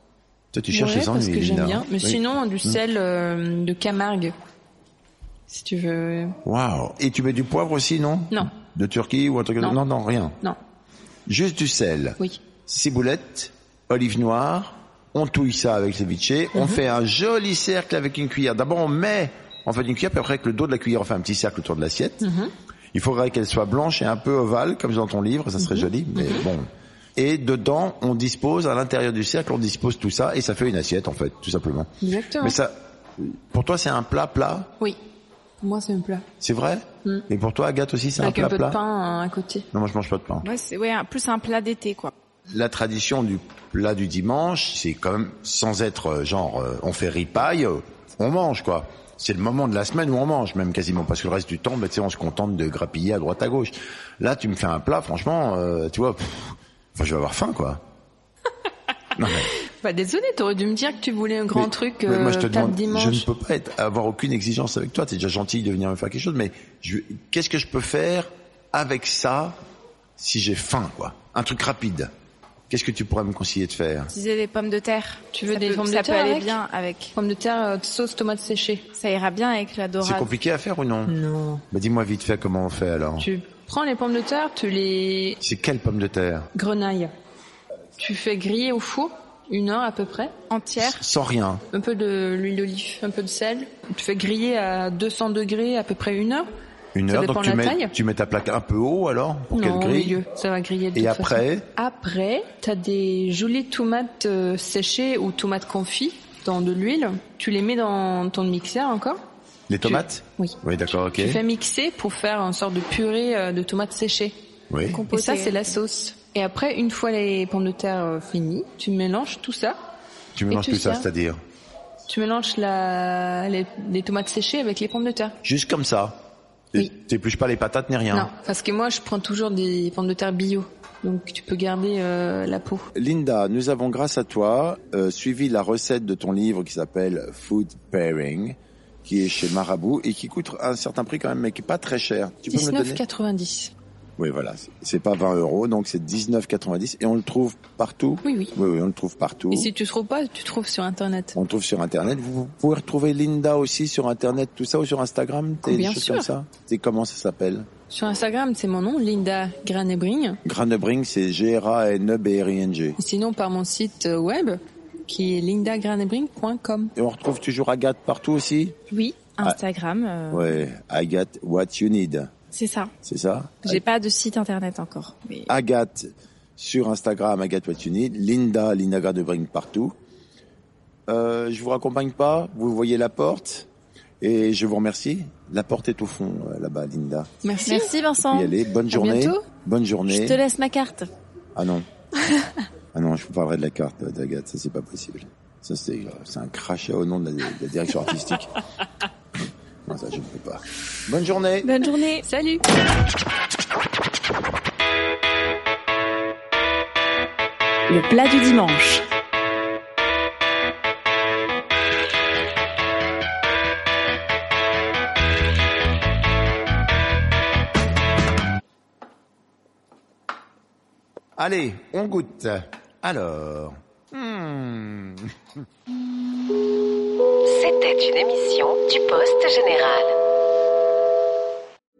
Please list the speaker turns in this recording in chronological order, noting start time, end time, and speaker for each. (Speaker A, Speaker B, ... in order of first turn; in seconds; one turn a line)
Speaker A: 0.5-2.8
Speaker B: 0.7-4.3
Speaker B: 5.5-6.4
Speaker A: 6.4-10.4
Speaker A: 11.3-22.3
Speaker B: 16.5-16.8
Speaker B: 22.2-22.5
Speaker A: 22.9-34.7
Speaker B: 25.6-26.5
Speaker B: 32.0-32.6
Speaker B: 35.6-36.3
Speaker A: 36.4-38.8
Speaker B: 38.2-39.7
Speaker A: 39.7-40.5
Speaker C: 40.4-42.1
Speaker A: 42.5-57.8
Speaker A: 59.2-59.5
Speaker B: 59.6-63.3
Speaker A: 61.5-69.6
Speaker A: 70.2-72.1
Speaker A: 72.7-74.1
Speaker C: 74.1-77.1
Speaker B: 75.3-76.6
Speaker B: 77.2-78.9
Speaker C: 79.0-80.3
Speaker A: 80.0-81.2
Speaker B: 81.1-81.6
Speaker A: 81.7-83.3
Speaker B: 83.2-85.4
Speaker A: 85.4-86.5
Speaker B: 86.5-87.1
Speaker B: 88.0-90.3
Speaker C: 90.5-91.0
Speaker A: 90.8-91.6
Speaker B: 91.7-96.5
Speaker A: 96.9-100.2
Speaker B: 97.1-97.9
Speaker B: 99.5-109.2
Speaker A: 101.0-101.7
Speaker A: 109.7-111.4
Speaker B: 109.8-110.6
Speaker B: 111.1-114.4
Speaker A: 114.7-115.1
Speaker C: 114.9-115.7
Speaker B: 115.1-119.8
Speaker A: 120.3-121.4
Speaker B: 120.5-121.1
Speaker B: 122.1-125.4
Speaker A: 125.4-128.3
Speaker B: 128.1-132.9
Speaker A: 132.9-143.0
Speaker B: 142.5-143.7
Speaker A: 144.2-149.7
Speaker B: 148.2-148.5
Speaker B: 149.5-151.4
Speaker A: 151.3-157.7
Speaker B: 155.6-156.3
Speaker B: 157.9-160.4
Speaker A: 160.4-163.0
Speaker B: 163.0-166.9
Speaker A: 166.9-168.8
Speaker C: 168.9-170.6
Speaker A: 170.3-172.3
Speaker C: 172.5-172.9
Speaker A: 173.0-173.8
Speaker C: 173.6-175.5
Speaker A: 175.5-179.9
Speaker A: 181.1-183.7
Speaker A: 184.2-187.3
Speaker B: 187.4-187.9
Speaker C: 187.7-189.4
Speaker A: 188.2-190.4
Speaker C: 190.1-191.1
Speaker A: 191.6-191.9
Speaker A: 192.9-198.5
Speaker A: 199.9-201.8
Speaker C: 201.6-202.2
Speaker B: 202.2-202.6
Speaker B: 207.9-209.0
Speaker A: 221.4-225.4
Speaker D: 227.5-230.1